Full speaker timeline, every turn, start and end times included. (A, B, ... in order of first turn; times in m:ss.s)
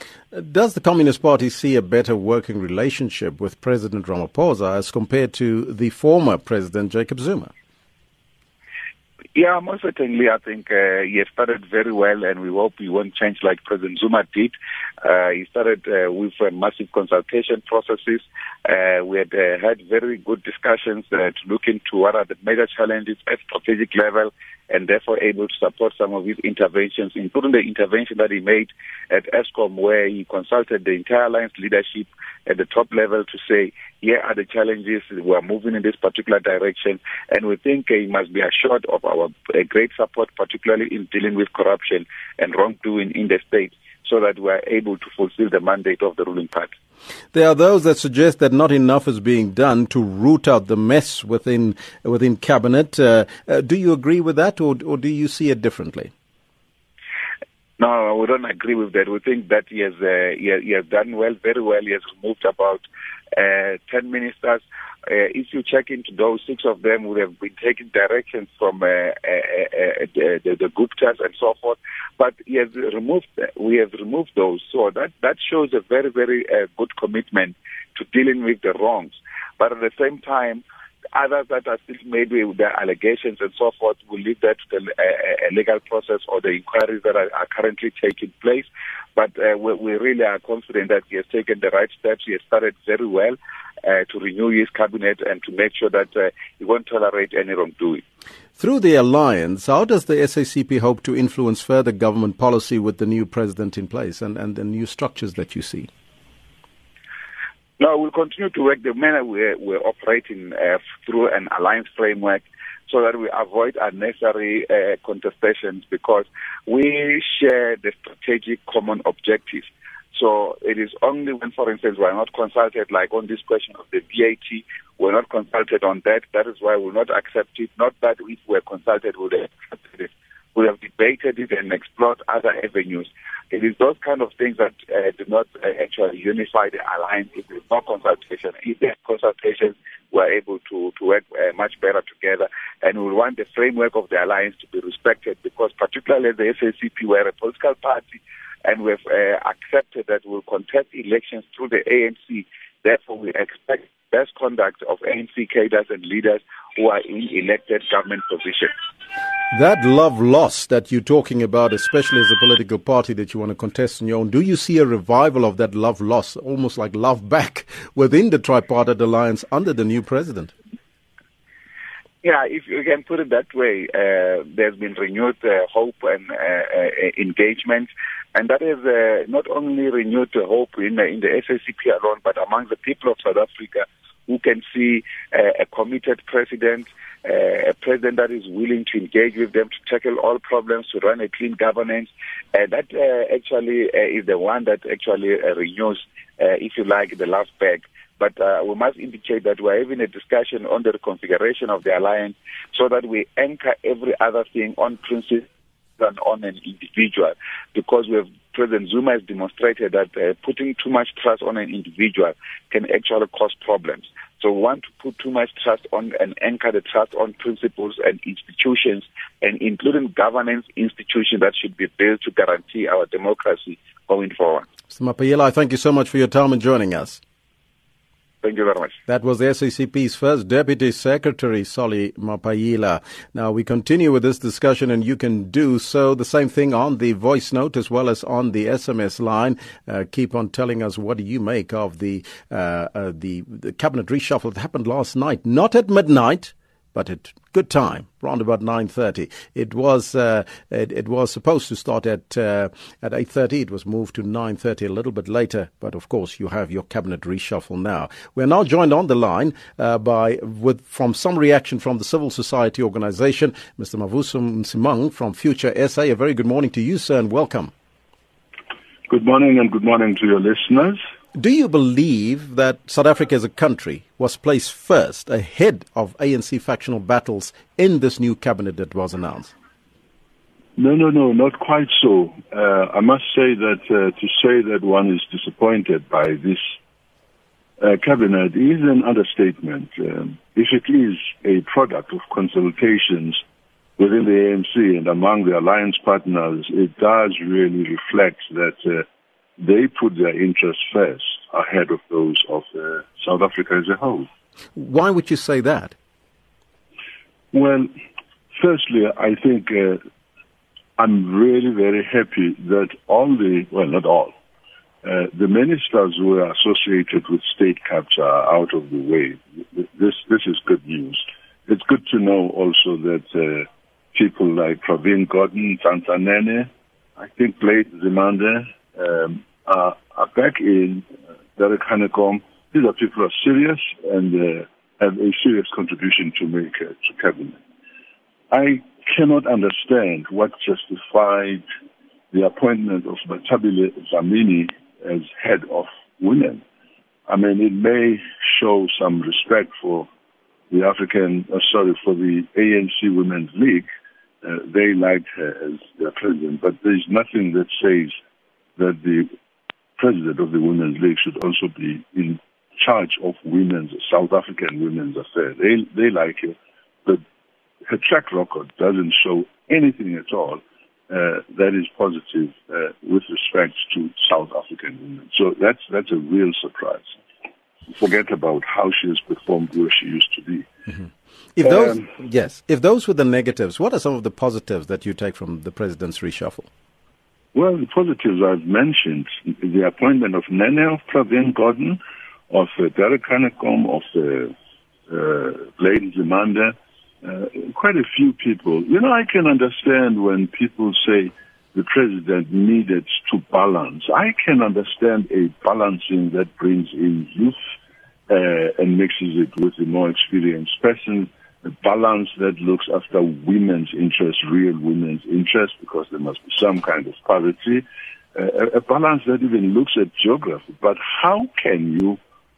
0:00.3-0:07.5 A
0:09.4-0:46.7 B
0:47.3-0:56.1 A
0:57.8-1:38.0 B
1:38.6-1:45.9 A
1:47.8-2:38.7 B
2:39.5-2:50.5 A
2:52.2-3:44.6 B
3:44.9-3:47.2 A
3:48.4-3:49.0 B
3:49.1-4:27.7 A
4:29.1-4:31.0 C
4:31.4-4:39.5 A
4:40.8-4:46.6 C
4:47.8-4:53.4 C
4:54.0-4:59.0 C
4:59.6-5:04.3 C
5:04.8-5:06.0 A
5:07.5-5:07.9 C
5:08.6-5:10.0 C
5:11.0-5:14.4 C
5:15.0-5:37.6 C
5:38.5-5:41.6 C
5:42.3-5:46.6 C
5:47.3-5:50.1 C
5:50.7-5:53.9 C
5:54.4-5:58.2 C
5:58.8-5:59.3 C
6:00.0-6:07.2 C
6:07.9-6:17.2 C
6:17.9-6:20.7 C
6:21.6-6:26.7 A
6:21.6-6:22.0 C
6:27.5-6:32.0 C
6:32.5-6:34.5 C
6:35.1-6:47.6 C
6:48.3-7:02.2 C